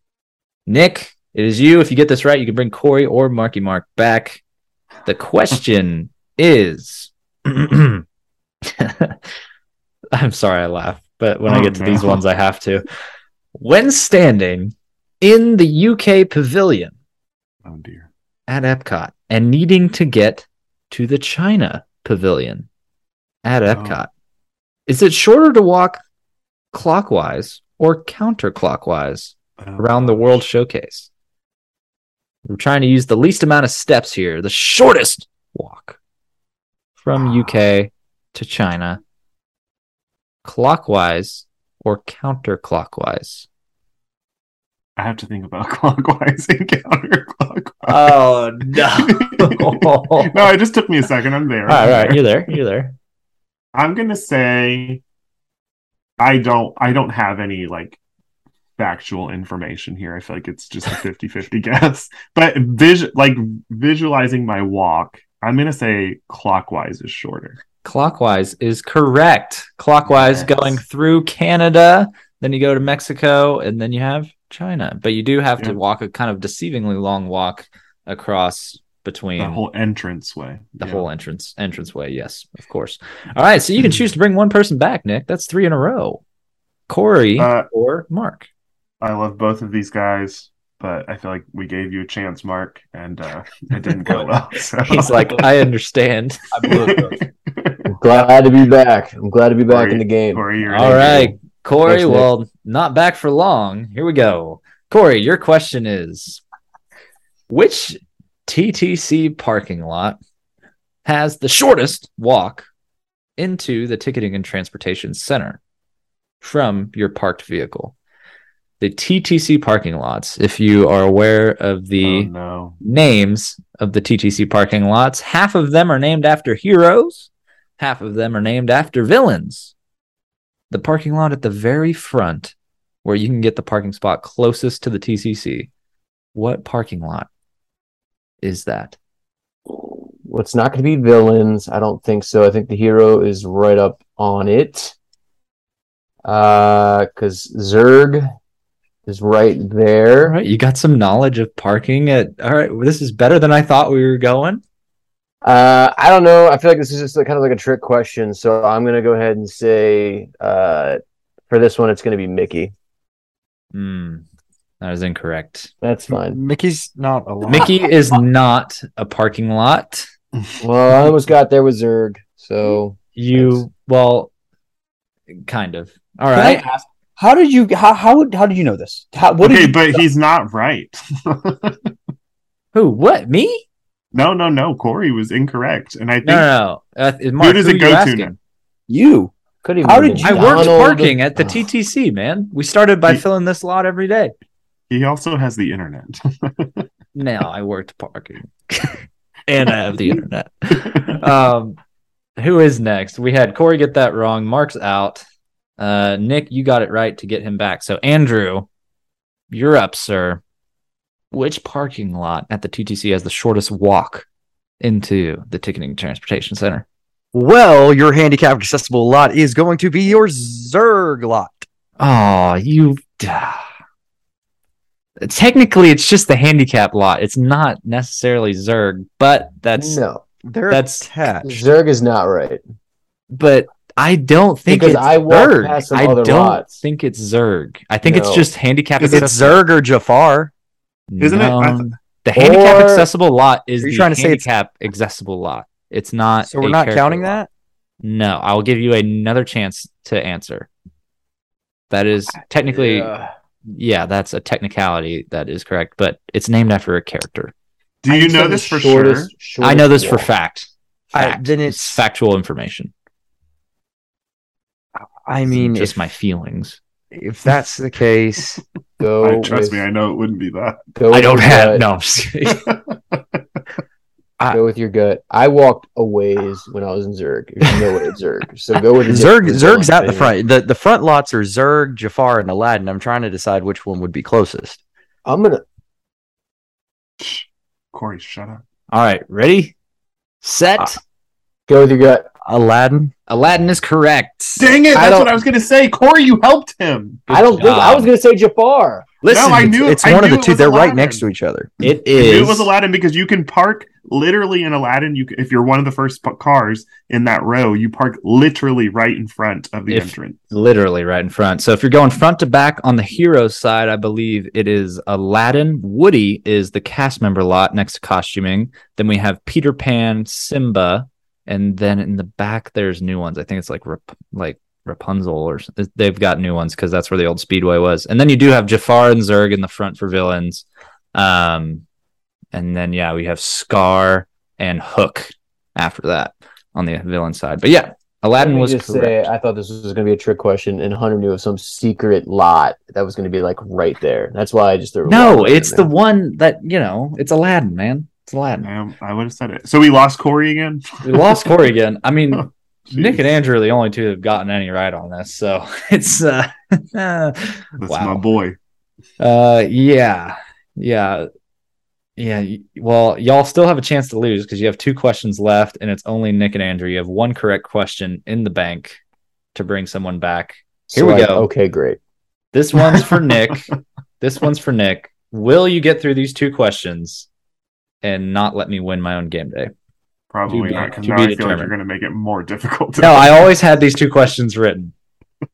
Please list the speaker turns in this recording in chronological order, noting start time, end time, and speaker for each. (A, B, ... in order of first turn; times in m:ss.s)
0:00.7-0:04.4 A
0:05.0-0:08.0 A
0:08.6-0:09.2 A
0:10.1-0:12.8 A
0:11.5-0:12.2 B
0:13.5-0:16.9 A
0:17.6-0:18.1 B
0:18.5-0:22.7 A
0:23.4-0:24.1 A
0:23.7-0:24.0 B
0:24.9-0:26.0 A
0:26.7-0:31.1 A
0:29.6-0:30.4 B
0:32.4-0:36.0 A
0:37.0-0:39.0 A
0:40.4-0:43.5 A
0:45.0-0:48.2 B
0:47.8-0:50.5 A
0:48.7-0:52.3 B
0:51.7-0:52.9 A
0:53.7-0:55.0 B
0:56.2-0:58.0 B
0:58.8-1:07.6 B
1:07.8-1:19.6 A
1:10.1-1:10.8 B
1:19.4-1:21.0 B
1:20.8-1:26.2 A
1:26.9-1:28.5 A
1:27.4-1:27.7 B
1:29.0-1:35.4 B
1:34.8-1:36.5 A
1:36.5-1:37.2 C
1:36.6-1:37.9 B
1:37.9-1:41.3 D
1:39.7-1:41.3 B
1:40.6-1:46.4 A
1:41.9-1:42.3 D
1:47.5-1:50.2 A
1:51.0-1:52.7 A
1:53.4-1:55.6 A
1:56.4-1:57.9 A
1:58.8-2:02.3 A
2:02.0-2:02.8 B
2:02.8-2:09.7 A
2:10.7-2:15.7 A
2:16.3-2:17.3 A
2:18.4-2:19.0 A
2:19.7-2:24.9 D
2:26.2-2:28.2 D
2:29.0-2:30.4 D
2:30.2-2:34.6 A
2:35.4-2:42.7 D
2:43.7-2:44.2 A
2:44.8-2:45.7 A
2:45.8-2:46.4 D
2:46.1-2:47.7 E
2:47.4-2:50.1 A
2:50.6-2:53.6 D
2:53.2-2:54.3 A
2:55.4-2:56.6 A
2:56.3-3:00.0 C
2:59.4-3:01.9 B
3:02.7-3:03.6 A
3:04.1-3:06.5 B
3:06.2-3:08.4 A
3:07.4-3:08.3 B
3:08.9-3:09.3 C
3:09.6-3:11.6 D
3:09.8-3:10.5 E
3:10.2-3:14.3 A
3:14.9-3:16.8 B
3:17.1-3:21.8 A
3:22.4-3:25.2 A
3:25.8-3:28.7 A
3:29.5-3:30.4 A
3:31.3-3:34.2 A
3:34.8-3:36.8 A
3:37.3-3:41.6 E
3:42.0-3:43.6 A
3:45.2-3:50.0 A
3:49.8-3:50.3 D
3:50.4-3:51.6 E
3:50.7-3:51.1 A
3:51.4-3:52.6 D
3:53.3-3:59.6 A
3:54.7-3:56.8 D
3:58.0-3:58.5 D
3:59.0-4:00.5 E
4:01.1-4:07.4 A
4:01.2-4:01.8 B
4:02.3-4:03.1 D
4:03.8-4:04.5 E
4:06.4-4:07.5 E
4:08.0-4:10.7 A
4:11.9-4:13.1 A
4:12.7-4:13.2 D
4:13.7-4:17.5 A
4:18.0-4:19.3 B
4:18.1-4:20.3 D
4:19.6-4:22.9 A
4:21.1-4:22.0 E
4:25.2-4:26.0 E
4:25.5-4:26.8 A
4:27.1-4:28.6 E
4:29.0-4:29.8 D
4:29.2-4:30.8 B
4:30.9-4:31.8 D
4:31.1-4:32.6 A
4:32.4-4:33.4 B
4:34.5-4:40.3 D
4:39.1-4:44.8 E
4:45.2-4:45.6 D
4:47.2-4:48.6 B
4:48.9-4:49.7 A
4:50.4-4:51.0 A
4:51.7-4:52.3 D
4:52.4-4:53.1 E
4:53.3-4:54.8 A
4:54.6-4:57.2 B
4:54.9-4:55.3 D
4:57.3-4:58.1 A
4:57.3-4:59.2 D
4:59.2-4:59.8 A
4:59.2-5:01.2 B
4:59.6-5:01.7 E
5:01.8-5:02.7 A
5:02.1-5:10.4 B
5:09.9-5:31.8 A
5:32.5-5:39.3 A
5:38.4-5:45.9 D
5:45.0-5:48.7 A
5:48.6-5:51.4 B
5:51.0-5:58.2 A
5:52.9-5:53.2 B
5:57.8-5:58.6 B
5:59.2-6:01.3 A
6:02.2-6:09.0 A
6:09.5-6:11.5 A
6:10.9-6:12.0 D
6:12.5-6:17.3 A
6:18.0-6:19.7 A
6:20.3-6:23.5 B
6:20.5-6:21.7 A
6:23.0-6:24.9 A